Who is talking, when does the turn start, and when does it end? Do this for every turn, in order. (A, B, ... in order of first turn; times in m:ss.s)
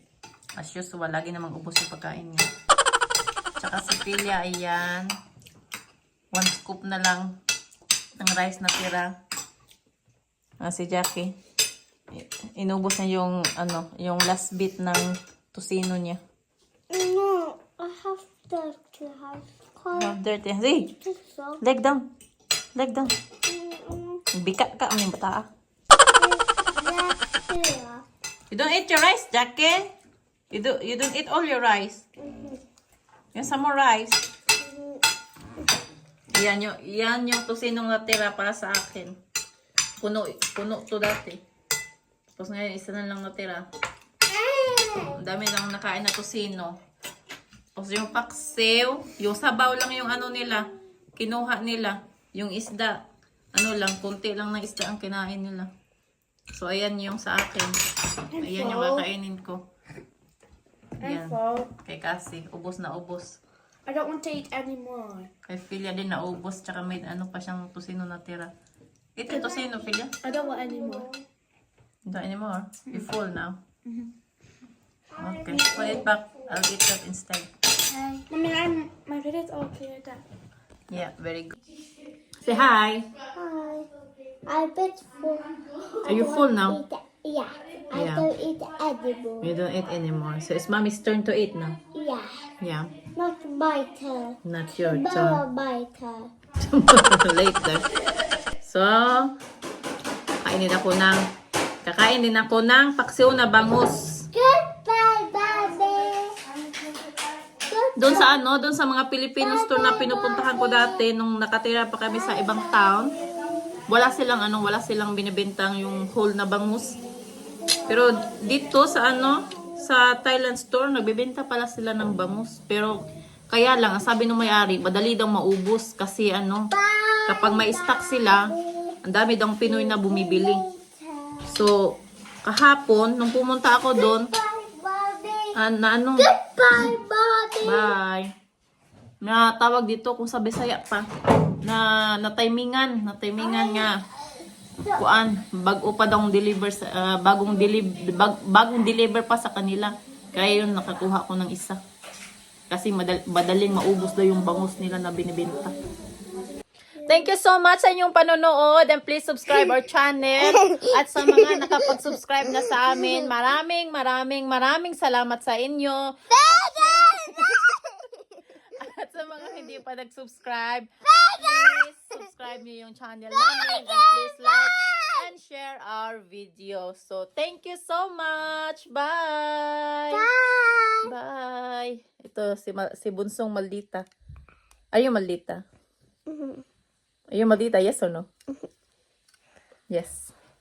0:00.6-0:02.5 A
0:03.6-0:05.1 A
0:06.3-0:07.4 A
0:08.2-0:09.2 A
0:10.6-0:11.3 A
0:12.1-0:16.2 A
0:16.9-0:20.2 B
0:19.9-0:20.9 A
0:20.9-0:21.6 B
0:21.6-0:22.1 A
0:22.7-0:23.1 A
0:23.4-0:24.2 B
0:24.3-0:25.5 A
0:26.2-0:28.0 B
0:28.5-0:29.9 A
0:30.5-0:32.0 A
0:32.2-0:32.6 B
0:33.3-0:34.2 A
0:34.6-0:35.0 B
0:36.3-0:39.2 A
0:40.0-0:41.4 A
0:42.3-0:43.7 A
0:44.2-0:45.2 B
0:45.1-0:46.8 A
0:47.8-0:55.7 A
0:56.5-0:59.6 A
0:58.3-0:59.1 C
1:01.0-1:01.7 C
1:01.0-1:03.4 A
1:03.8-1:05.3 C
1:05.4-1:08.5 A
1:09.2-1:10.2 A
1:09.3-1:11.2 B
1:10.2-1:11.1 C
1:12.0-1:13.6 A
1:15.2-1:16.1 B
1:15.2-1:17.5 A
1:18.2-1:20.2 C
1:20.9-1:21.6 A
1:22.4-1:23.1 A
1:23.3-1:23.9 B
1:24.4-1:29.6 B
1:26.0-1:26.8 A
1:27.9-1:28.3 A
1:29.4-1:31.8 A
1:31.9-1:32.4 B
1:32.6-1:33.0 A
1:33.1-1:36.3 B
1:34.4-1:35.4 A
1:36.6-1:37.9 A
1:38.6-1:39.3 A
1:40.4-1:41.3 A
1:41.8-1:44.3 A
1:44.3-1:46.4 B
1:47.6-1:48.4 B
1:48.0-1:53.1 A
1:49.4-1:51.1 B
1:52.0-1:53.9 B
1:53.8-1:57.0 A
1:57.6-1:58.3 B
1:57.9-2:06.7 A
2:06.7-2:09.0 B
2:07.2-2:08.5 A
2:09.0-2:10.6 A
2:09.6-2:11.6 B
2:11.4-2:14.3 A
2:13.9-2:15.6 B
2:15.5-2:16.3 A
2:16.2-2:18.0 B
2:17.6-2:18.3 A
2:19.2-2:21.1 A
2:21.6-2:24.0 A
2:23.4-2:25.0 B
2:25.0-2:31.8 A
2:32.7-2:35.8 A
2:37.0-2:37.3 B
2:37.0-2:47.7 A
2:40.4-2:41.6 B
2:46.3-2:48.2 B
2:48.7-3:00.2 A
2:51.1-2:51.8 B
2:53.3-2:55.2 B
3:00.1-3:01.1 B
3:01.0-3:04.1 A
3:04.9-3:05.6 A
3:06.3-3:06.6 B
3:07.3-3:08.3 A
3:09.9-3:10.3 A